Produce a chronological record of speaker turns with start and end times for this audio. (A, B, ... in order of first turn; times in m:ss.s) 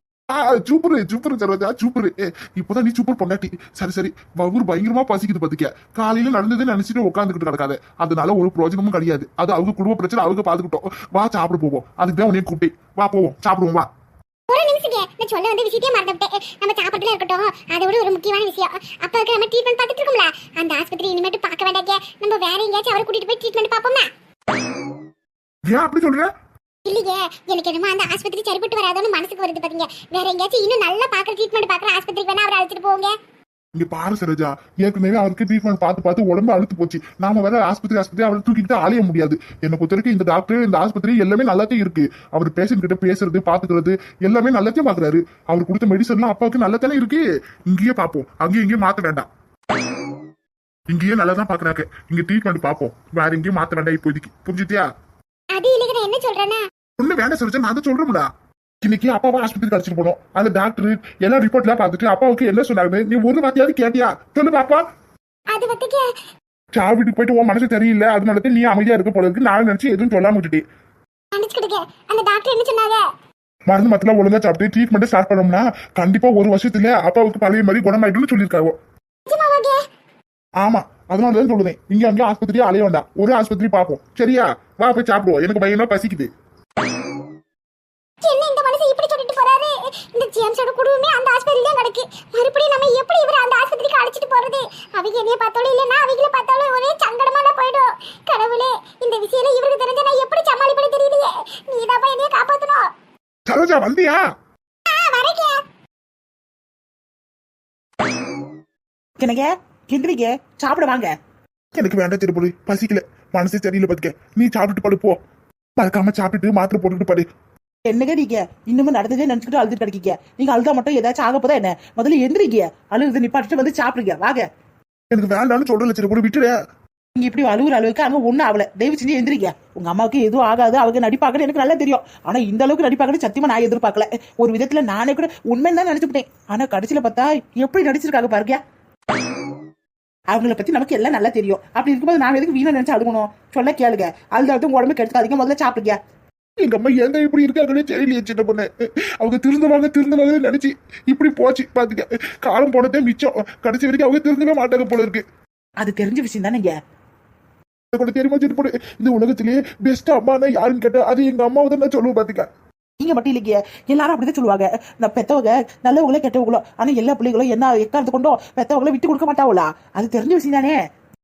0:00.3-0:13.9 A
0:14.5-0:24.1 B
0:25.7-0:26.3 A
0:26.8-0:33.2 B
0:33.8-0:49.3 A
0:50.9-0:54.8 A
0:55.5-0:56.6 B
0:57.0-0:58.3 A
0:58.8-1:04.8 A
1:05.5-1:06.0 B
1:06.7-1:10.6 A
1:11.3-1:13.0 B
1:13.7-1:18.7 A
1:19.3-1:19.8 B
1:20.6-1:26.3 A
1:28.2-1:42.9 B
1:43.5-1:44.2 A
1:44.9-1:45.6 B
1:49.2-1:51.1 C
1:51.8-1:55.2 A
1:55.8-1:57.3 A
1:57.9-2:04.4 C
2:05.1-2:06.5 A
2:07.2-2:18.6 C
2:20.3-2:26.0 C
2:26.6-2:35.2 A
2:35.8-2:36.8 C
2:37.9-2:42.5 A
2:43.0-2:50.8 C